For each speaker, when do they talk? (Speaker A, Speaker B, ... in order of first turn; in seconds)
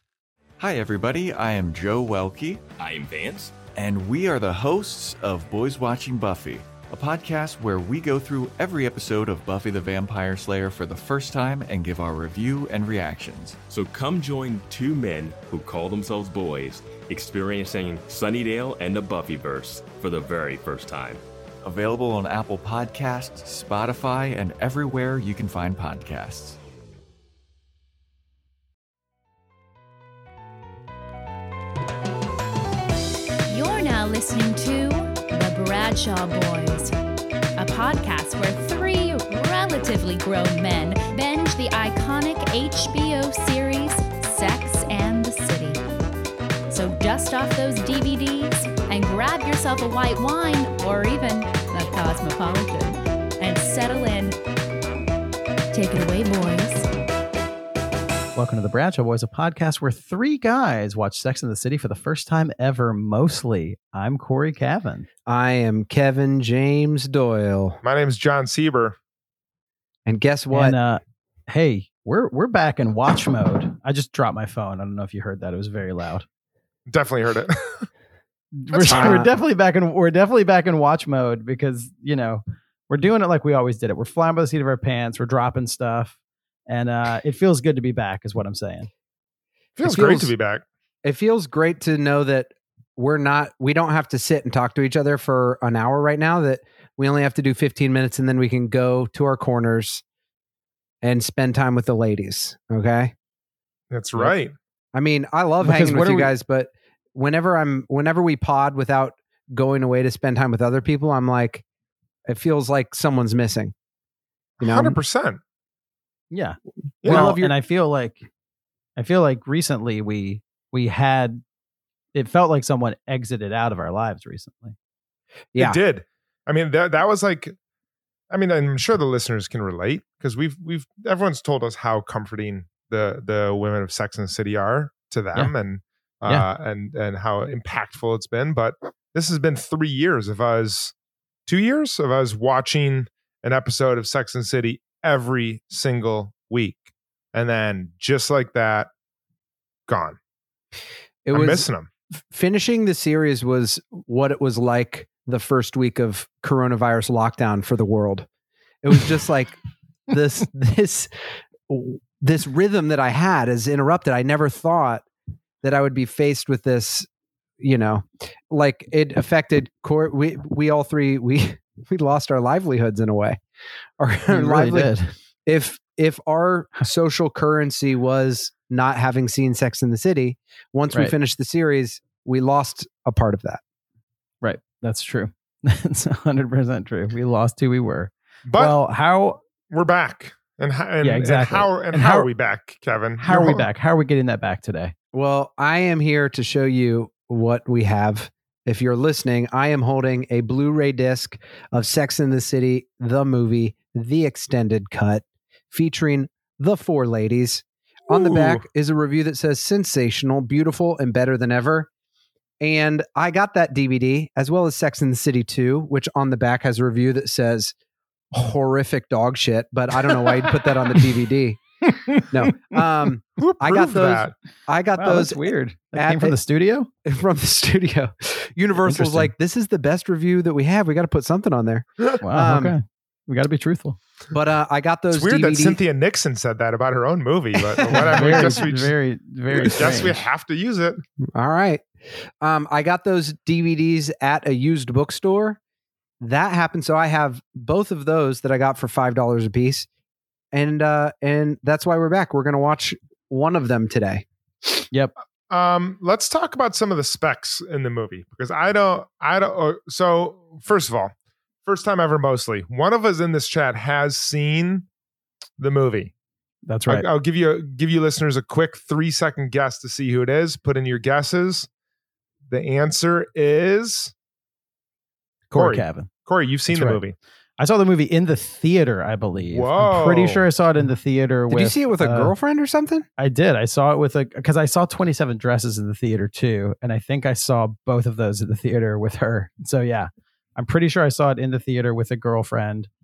Speaker A: 0.6-2.6, 3.7-13.6, 21.6-26.6
Speaker B: 2.8-3.6, 13.7-21.2
Speaker C: 33.5-36.9, 37.6-45.8, 46.7-54.4, 55.7-56.9
Speaker D: 58.4-65.1, 70.5-76.2, 78.6-86.2, 86.7-88.9, 105.6-106.3, 116.3-118.3, 119.0-121.4, 122.1-124.8, 174.3-175.1, 184.4-189.4, 191.0-192.3, 193.2-194.9, 221.9-222.2, 225.0-226.9, 228.8-229.3, 232.2-234.0, 238.1-240.2, 266.7-267.1, 275.5-276.1, 276.7-277.0, 277.6-282.3, 283.2-292.9
Speaker E: 65.3-67.8, 70.1-70.8, 78.9-79.3, 89.8-90.3, 91.0-100.0, 101.0-103.1, 104.9-111.6, 112.3-113.7, 114.6-115.0, 117.0-117.5, 151.2-151.7, 152.3-158.3, 158.8-159.6, 160.1-161.1, 161.7-165.1, 165.6-167.1, 167.6-173.4, 174.0-174.9, 175.5-183.6, 195.1-211.9, 212.6-217.7, 218.3-221.6, 222.3-226.3, 227.1-232.8, 234.3-235.8, 237.8-238.5, 241.3-241.8, 242.4-245.6, 246.2-249.9, 250.5-254.2, 281.5-283.1
Speaker F: 67.8-69.0, 76.9-77.9, 78.7-79.3, 89.8-90.6, 103.9-104.5, 114.6-115.4, 117.0-117.3, 125.6-127.5, 128.3-140.9, 141.5-148.9, 149.9-150.2, 151.3-151.9, 188.5-188.8, 189.7-193.7, 208.1-208.6, 223.4-224.3, 235.1-238.9, 239.6-241.0, 255.5-261.1, 261.7-264.9, 265.6-266.1, 266.9-271.7, 272.5-274.1, 275.5-277.1, 279.5-280.5